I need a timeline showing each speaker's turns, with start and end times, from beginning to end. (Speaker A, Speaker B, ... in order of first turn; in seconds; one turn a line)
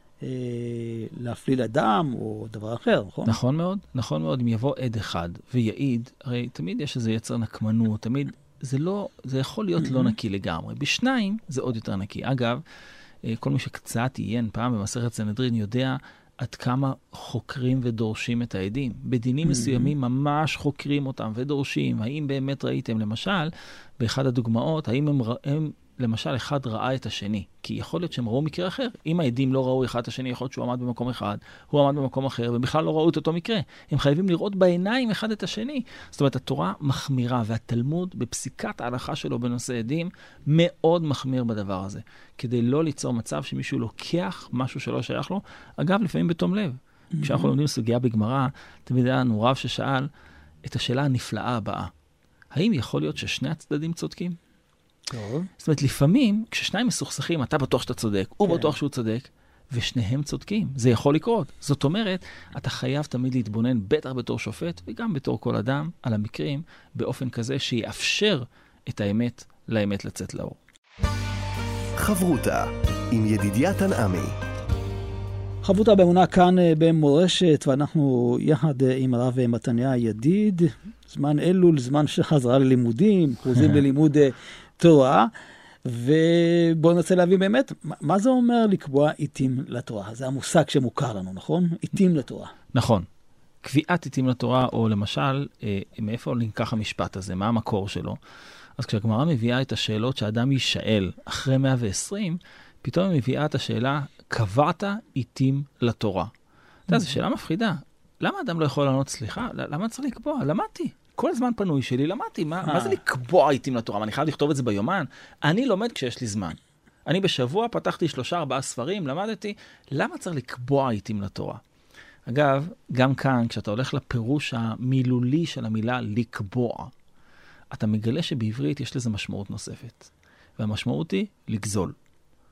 Speaker A: 0.2-3.4
Speaker B: 3.3-12.6
Speaker A: 9.8-10.2
Speaker B: 13.2-50.1
Speaker A: 19.4-19.9
Speaker A: 47.1-47.5
Speaker B: 50.6-51.9
Speaker B: 52.5-54.4
Speaker A: 55.1-55.5
Speaker B: 55.6-70.6
Speaker A: 58.5-58.7
Speaker C: 72.0-74.3
Speaker A: 75.6-85.3
Speaker A: 85.8-92.5
Speaker B: 92.7-93.1
Speaker B: 93.6-98.2
Speaker B: 98.8-106.3
Speaker B: 106.9-121.6
Speaker A: 106.9-107.2
Speaker A: 112.6-113.0
Speaker B: 122.3-126.9
Speaker B: 127.7-131.9